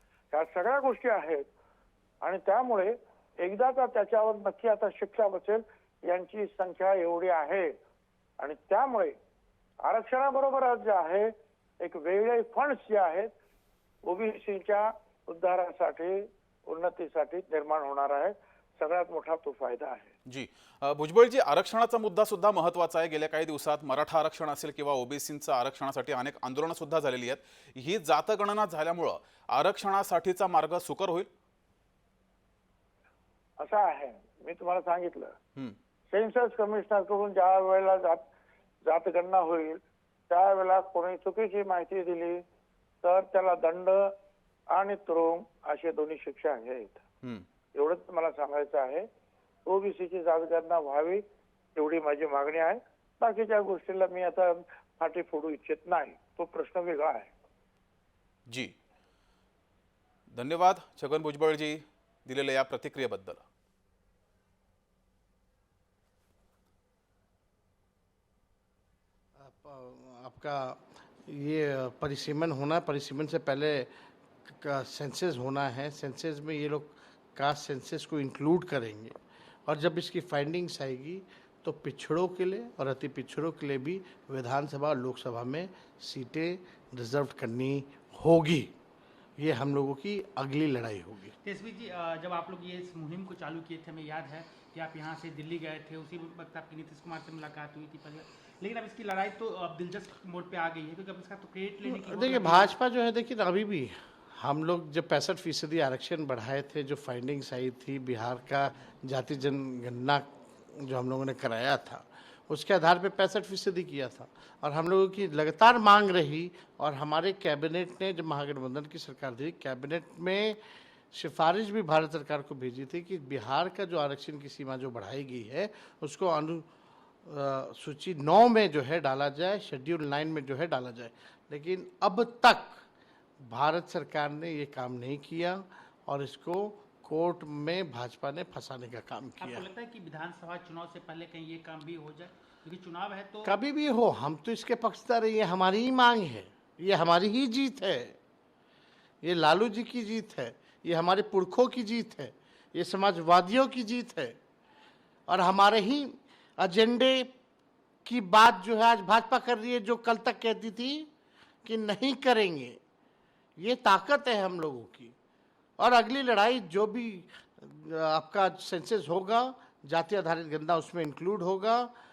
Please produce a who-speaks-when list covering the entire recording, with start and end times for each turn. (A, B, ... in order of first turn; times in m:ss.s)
0:00.3-0:01.5 A
0:02.2-0:07.7 A
0:08.4-0:09.2 A
0:09.8-0:13.3 A
0:14.0-0:20.1 A
0:20.3-0:31.3 B
0:33.6-0:35.4 A
0:36.1-0:38.2 A
0:38.8-0:42.4 A
0:43.0-0:44.1 A
0:44.7-0:47.0 A
0:47.7-0:49.1 A
0:49.7-0:51.2 A
0:51.8-0:57.3 A
1:00.3-1:03.4 B
1:09.4-1:13.9 C
1:14.5-1:28.7 C
1:29.4-1:31.4 C
1:31.4-1:42.7 D
1:41.8-2:00.6 C
2:01.1-2:06.7 C
2:07.2-2:12.8 C
2:13.4-2:19.7 C
2:19.4-2:23.5 D
2:23.4-2:28.2 C
2:29.2-2:34.4 C
2:35.3-2:37.3 C
2:38.0-2:41.1 C
2:41.6-2:42.8 C
2:43.6-2:45.2 C
2:45.8-2:51.9 C